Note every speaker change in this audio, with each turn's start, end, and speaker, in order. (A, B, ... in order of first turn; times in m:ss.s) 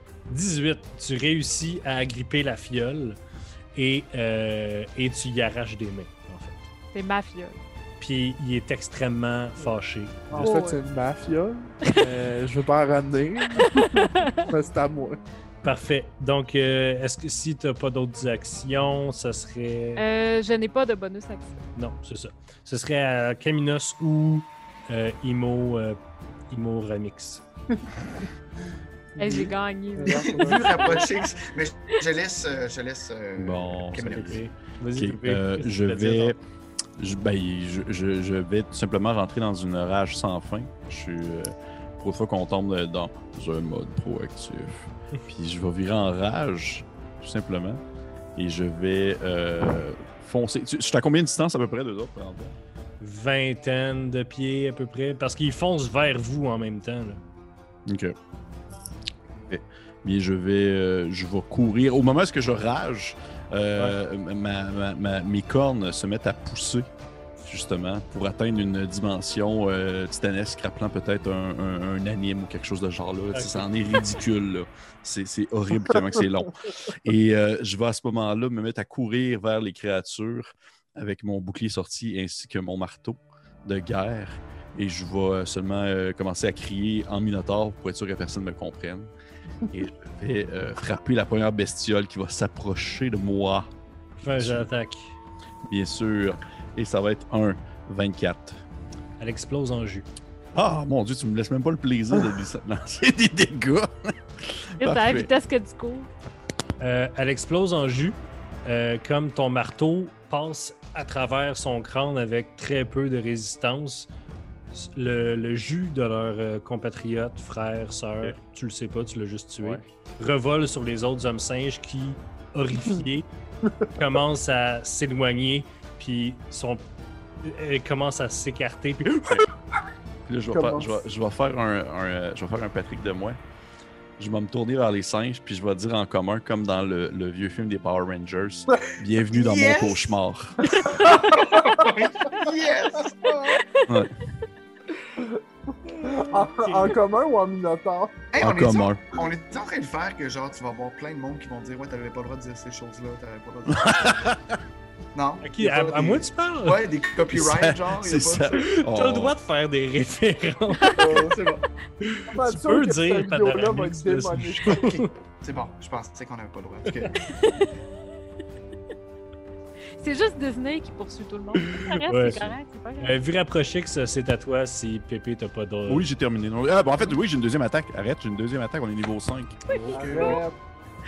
0:00.3-0:03.2 A
0:03.7-0:06.6 A
0:06.9-0:07.6 B
0:08.0-0:10.5 A
0:10.3-0:15.2 C
0:10.3-0:10.8 B
0:13.5-0:14.4 B
0:15.6-0:20.0 A
0:20.0-0:21.6 B
0:21.8-0:27.4 A
0:29.2-0:30.8 C
0:29.2-0:31.1 B
0:30.1-0:34.4 D
0:33.4-0:36.4 E
0:34.0-0:36.4 A
0:37.0-0:47.8 E
0:48.4-0:52.6 E
0:53.0-0:57.2 A
0:57.9-0:58.1 E
0:59.5-1:29.1 E
1:13.3-1:13.7 A
1:29.7-1:33.7 E
1:34.2-1:35.2 A
1:34.3-1:34.7 E
1:35.7-1:38.6 E
1:39.2-1:40.0 A
1:40.5-1:45.3 E
1:44.8-1:46.1 B
1:46.8-1:54.1 A
1:54.7-2:03.3 A
2:03.6-2:03.9 C
2:03.9-2:06.8 A
2:07.4-2:09.4 A
2:10.2-2:13.4 E
2:10.5-2:11.0 C
2:14.2-2:21.0 E
2:19.3-2:23.6 D
2:21.1-2:21.9 C
2:23.2-2:23.6 C
2:23.8-2:24.2 E
2:26.0-2:28.3 C
2:28.3-2:34.3 D
2:28.4-2:29.2 E
2:33.7-2:34.6 E
2:35.1-2:38.6 D
2:35.4-2:36.8 A
2:37.3-2:39.4 E
2:38.6-2:41.0 A
2:41.0-2:41.4 C
2:41.0-2:41.6 D
2:42.0-2:45.1 A
2:42.3-2:44.9 C
2:44.7-2:47.2 D
2:47.3-2:47.7 B
2:50.0-2:53.2 B
2:51.6-2:56.1 A
2:55.9-2:59.6 E
2:59.7-3:00.4 A
2:59.9-3:00.4 D
2:59.9-3:00.6 C